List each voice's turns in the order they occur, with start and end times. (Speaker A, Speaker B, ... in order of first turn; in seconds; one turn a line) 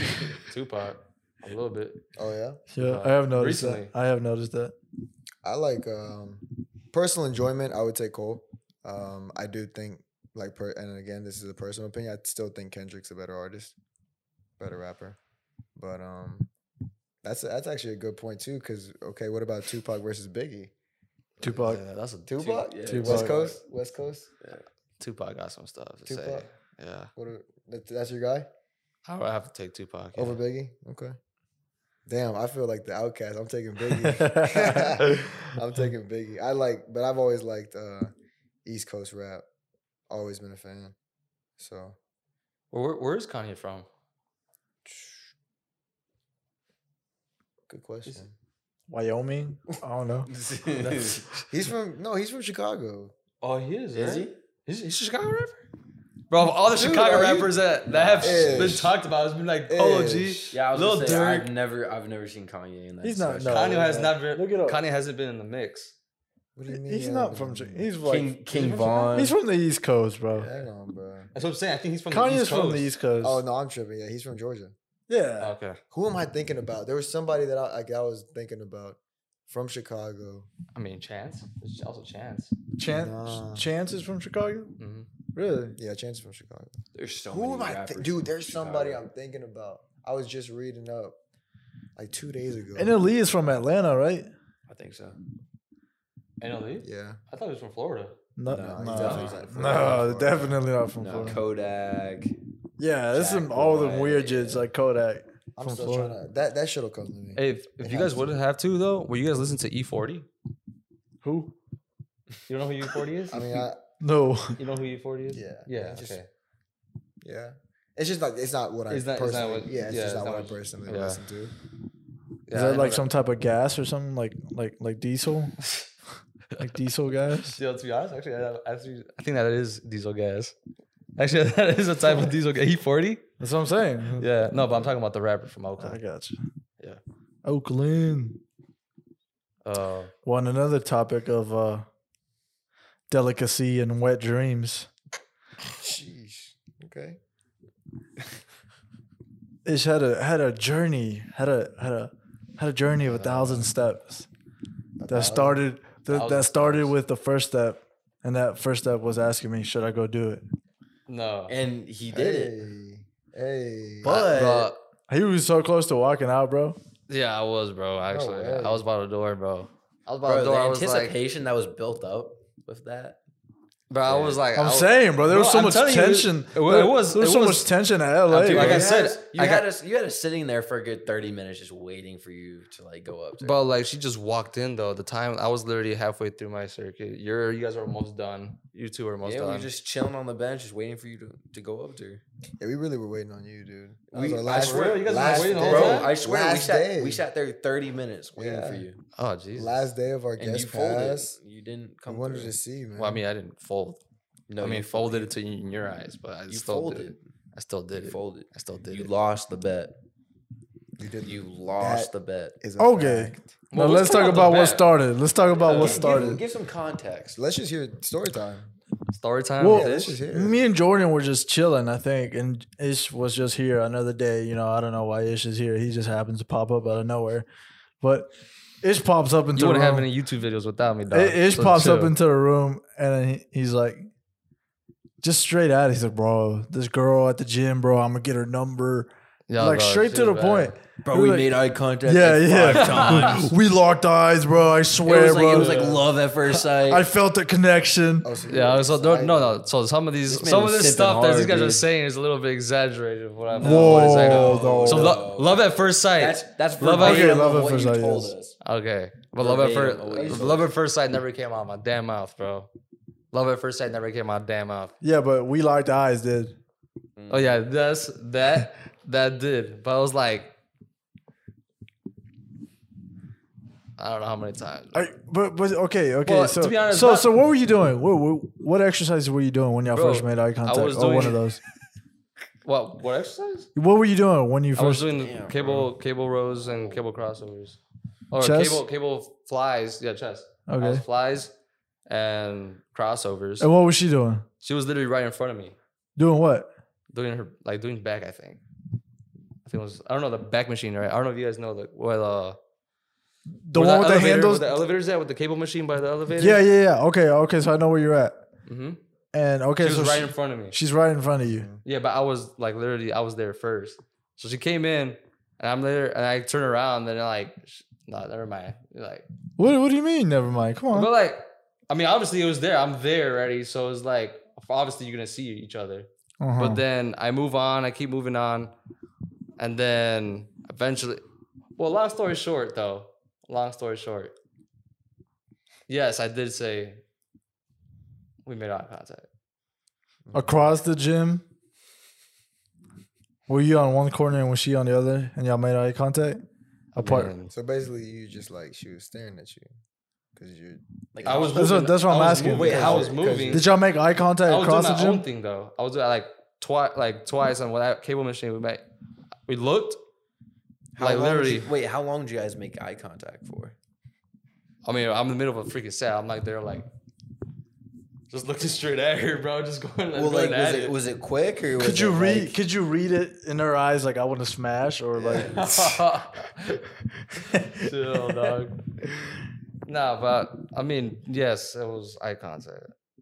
Speaker A: 0.2-2.0
Speaker B: 2.2-2.6
Speaker C: 2.7-4.8
Speaker A: 2.8-3.9
Speaker B: 5.4-13.8
Speaker B: 14.6-15.2
Speaker B: 15.8-16.5
Speaker B: 17.2-20.7
Speaker A: 21.4-22.7
Speaker C: 21.4-21.8
Speaker B: 22.3-24.3
Speaker D: 22.6-23.6
Speaker C: 22.9-23.4
Speaker A: 25.0-27.1
Speaker B: 26.1-26.4
Speaker B: 27.2-28.5
Speaker A: 29.1-30.4
Speaker B: 30.1-31.2
Speaker B: 32.1-38.1
Speaker C: 34.0-35.0
Speaker B: 38.6-39.5
Speaker B: 40.1-41.0
Speaker B: 41.6-42.0
Speaker A: 42.7-43.9
Speaker B: 44.9-45.2
Speaker B: 47.7-48.3
Speaker C: 48.9-50.3
Speaker D: 50.3-51.3
Speaker B: 51.5-53.1
Speaker A: 53.4-55.6
Speaker D: 53.9-54.4
Speaker A: 56.3-61.5
Speaker B: 56.5-57.6
Speaker D: 57.9-58.9
Speaker B: 58.2-59.0
Speaker B: 59.7-60.6
Speaker D: 60.5-64.0
Speaker C: 63.0-64.8
Speaker A: 63.5-66.0
Speaker B: 66.6-67.9
Speaker C: 66.7-68.4
Speaker D: 68.0-69.3
Speaker A: 68.5-69.3
Speaker C: 69.1-70.5
Speaker B: 70.4-71.3
Speaker A: 70.4-70.7
Speaker A: 71.3-72.9
Speaker C: 72.1-73.4
Speaker B: 73.2-74.8
Speaker C: 75.1-75.5
Speaker A: 75.4-75.8
Speaker B: 75.9-80.5
Speaker A: 80.7-82.5
Speaker C: 82.8-84.7
Speaker B: 82.9-83.7
Speaker A: 84.8-85.1
Speaker C: 85.3-85.8
Speaker B: 85.8-86.8
Speaker D: 87.0-89.0
Speaker B: 87.3-91.2
Speaker B: 92.0-93.0
Speaker C: 92.8-94.3
Speaker D: 94.7-95.2
Speaker A: 96.4-98.2
Speaker B: 96.8-97.2
Speaker C: 98.4-101.4
Speaker D: 98.5-100.1
Speaker B: 98.5-100.6
Speaker A: 99.0-99.3
Speaker D: 101.0-102.4
Speaker C: 102.8-106.2
Speaker D: 103.1-104.7
Speaker B: 105.6-108.3
Speaker A: 107.3-110.3
Speaker C: 111.2-111.5
Speaker A: 112.5-113.7
Speaker B: 113.3-113.8
Speaker C: 114.0-114.6
Speaker A: 114.6-116.3
Speaker B: 115.3-116.2
Speaker B: 117.2-121.5
Speaker A: 118.9-121.2
Speaker A: 122.5-123.1
Speaker C: 122.5-125.6
Speaker C: 126.6-127.6
Speaker A: 127.5-130.5
Speaker A: 131.2-133.2
Speaker C: 133.4-134.3
Speaker A: 134.2-136.0
Speaker C: 135.8-136.4
Speaker C: 137.4-138.4
Speaker A: 139.6-140.1
Speaker C: 140.3-141.9
Speaker C: 143.1-144.9
Speaker B: 145.7-147.2
Speaker C: 149.7-154.3
Speaker A: 153.1-153.7
Speaker B: 155.0-155.6
Speaker C: 155.1-160.4
Speaker A: 156.1-156.9
Speaker A: 161.1-161.6
Speaker D: 161.5-162.5
Speaker B: 162.1-164.3
Speaker A: 164.0-164.8
Speaker C: 164.1-166.8
Speaker D: 164.3-164.7
Speaker A: 167.1-171.2
Speaker B: 168.1-168.8
Speaker D: 170.2-173.2
Speaker A: 173.9-177.7
Speaker D: 174.1-174.4
Speaker C: 174.6-178.9
Speaker A: 178.3-179.7
Speaker D: 178.3-183.6
Speaker A: 183.4-189.7
Speaker D: 189.2-192.2
Speaker B: 192.6-197.2
Speaker D: 194.1-199.0
Speaker A: 194.5-196.1
Speaker B: 198.3-198.9
Speaker A: 199.2-199.8
Speaker B: 199.6-201.4
Speaker D: 200.4-202.5
Speaker B: 202.1-203.2
Speaker A: 203.0-204.0
Speaker D: 204.5-205.3
Speaker A: 204.6-209.1
Speaker D: 206.5-207.3
Speaker D: 207.9-210.0
Speaker B: 211.0-213.6
Speaker D: 211.2-212.6
Speaker C: 212.8-216.4
Speaker A: 213.7-214.9
Speaker D: 215.6-217.4
Speaker A: 215.6-216.4
Speaker B: 217.3-218.7
Speaker A: 219.1-220.2
Speaker C: 219.6-227.5
Speaker B: 219.6-220.6
Speaker C: 228.0-228.3
Speaker C: 228.8-230.1
Speaker A: 229.6-232.2
Speaker C: 231.1-234.1
Speaker C: 235.2-248.3
Speaker A: 239.5-240.8
Speaker D: 241.1-243.6
Speaker A: 242.7-243.5
Speaker D: 245.1-247.1
Speaker A: 245.5-246.0
Speaker B: 248.2-249.7
Speaker A: 248.5-257.4
Speaker D: 250.3-251.8
Speaker D: 253.5-258.6
Speaker C: 253.6-255.2
Speaker C: 256.8-258.3
Speaker A: 258.6-262.7
Speaker D: 259.4-260.7
Speaker B: 260.2-260.5
Speaker A: 263.3-264.9
Speaker C: 265.0-266.6
Speaker D: 267.2-267.6
Speaker A: 267.3-270.5
Speaker A: 274.0-275.1
Speaker C: 274.9-281.6
Speaker A: 276.3-277.3
Speaker A: 279.9-281.4
Speaker A: 282.6-283.7
Speaker C: 283.8-285.1
Speaker A: 284.8-287.8
Speaker D: 285.1-285.9
Speaker D: 286.6-287.0
Speaker A: 288.3-291.5
Speaker C: 288.4-288.8
Speaker C: 290.7-291.0
Speaker A: 292.1-293.7
Speaker C: 293.6-294.4
Speaker A: 294.6-295.8
Speaker C: 296.2-296.7
Speaker A: 297.1-298.6
Speaker A: 299.6-302.6
Speaker C: 303.5-304.8
Speaker A: 303.8-306.6
Speaker C: 306.4-308.4
Speaker A: 308.7-309.0
Speaker C: 309.3-311.7
Speaker A: 309.8-310.8
Speaker B: 311.5-311.8
Speaker A: 311.9-319.2
Speaker C: 319.6-321.1
Speaker A: 320.9-328.7
Speaker C: 326.4-326.8
Speaker A: 329.6-331.2
Speaker A: 331.8-334.4
Speaker A: 335.9-337.0
Speaker A: 338.4-339.3
Speaker B: 340.3-340.6
Speaker C: 340.3-341.4
Speaker C: 343.5-346.4
Speaker A: 346.9-347.5
Speaker C: 347.0-347.3
Speaker B: 347.5-349.7
Speaker B: 350.4-351.5
Speaker D: 351.1-353.4
Speaker A: 351.2-353.7
Speaker C: 351.5-352.8
Speaker B: 352.6-353.7
Speaker C: 353.5-355.2
Speaker A: 354.4-358.8
Speaker A: 359.5-360.0
Speaker D: 360.9-363.8
Speaker A: 361.0-361.7
Speaker A: 364.8-366.9
Speaker A: 368.3-371.0
Speaker D: 370.1-372.6
Speaker C: 371.8-375.7
Speaker D: 375.1-375.9
Speaker A: 375.4-376.8
Speaker C: 377.6-377.9
Speaker A: 377.7-378.8
Speaker A: 379.9-382.9